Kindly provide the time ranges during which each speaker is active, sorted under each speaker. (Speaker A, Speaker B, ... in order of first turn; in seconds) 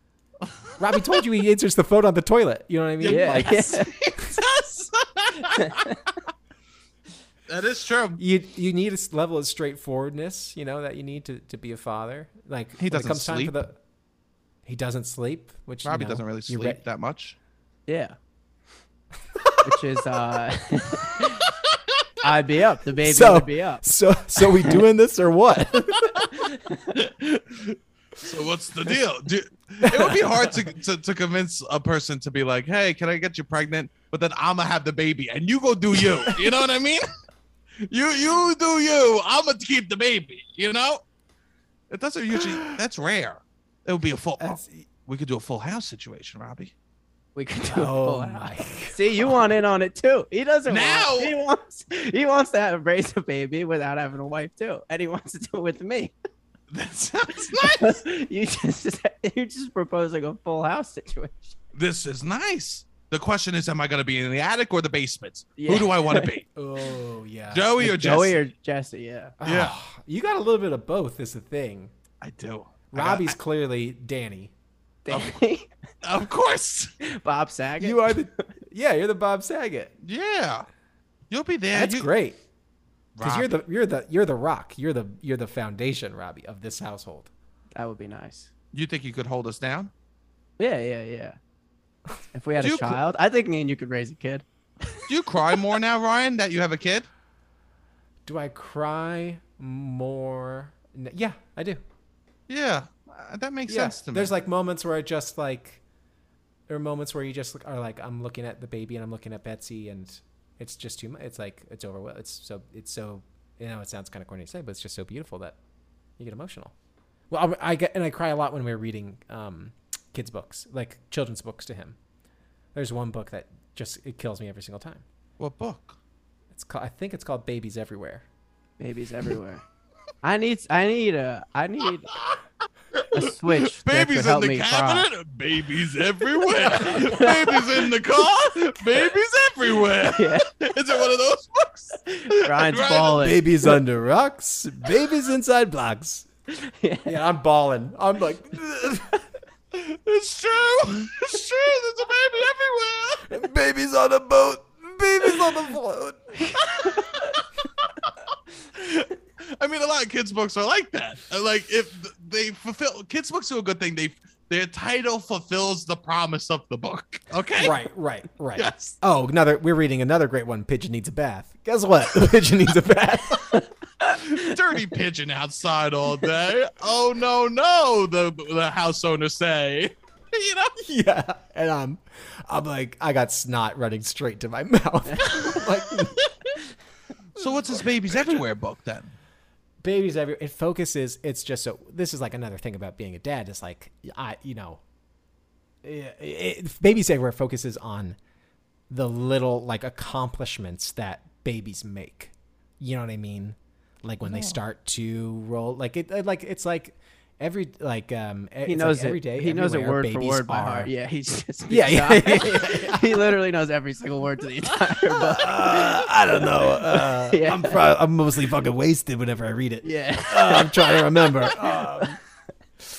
Speaker A: 0.8-4.4, 8.2-13.8, 14.6-16.8, 19.3-19.7, 23.0-26.3, 29.8-30.6, 44.4-44.8, 47.7-49.3, 66.5-68.2, 69.4-71.9, 72.9-74.5, 77.8-79.9, 81.7-82.4, 83.2-87.3, 98.2-101.8, 103.7-105.8, 106.7-115.6, 116.2-116.7, 117.3-122.0, 122.7-125.0, 126.5-128.2, 136.7-137.0, 143.1-146.2, 147.1-149.2, 153.3-157.0, 167.6-173.7, 180.8-186.3, 187.4-188.4, 189.8-194.8, 195.8-198.2, 198.9-210.9, 211.7-213.4, 215.2-222.2
Speaker B: 3.0-5.8, 7.5-8.2, 12.8-13.6, 15.8-17.4, 26.9-37.0, 37.8-41.0, 41.9-46.7, 50.7-51.3, 56.7-58.0, 61.7-66.5, 67.5-68.4, 69.4-69.8, 72.2-73.3, 76.0-76.9, 80.0-80.7, 81.3-82.1, 83.2-83.5, 88.7-89.9, 92.6-93.0, 95.0-97.1, 102.5-104.3, 125.4-126.0, 132.9-143.2, 149.7-153.3, 158.7-167.8, 168.5-169.0, 174.0-180.8, 187.3-189.1, 204.2-204.6
Speaker C: 3.0-3.9, 5.4-6.0, 17.9-18.1, 19.6-21.5, 22.2-23.8, 24.4-24.8, 26.2-26.9, 47.3-56.1, 57.4-61.5, 65.6-66.3, 67.8-69.3, 75.0-75.7, 77.0-78.5, 87.8-88.5, 90.6-91.3, 92.3-94.4, 128.8-129.6, 130.2-132.1, 133.1-135.1, 136.6-137.8, 140.0-140.5, 142.1-143.7, 146.5-147.1, 156.8-157.3, 173.5-174.5, 185.1-185.6, 208.7-217.8, 219.8-222.1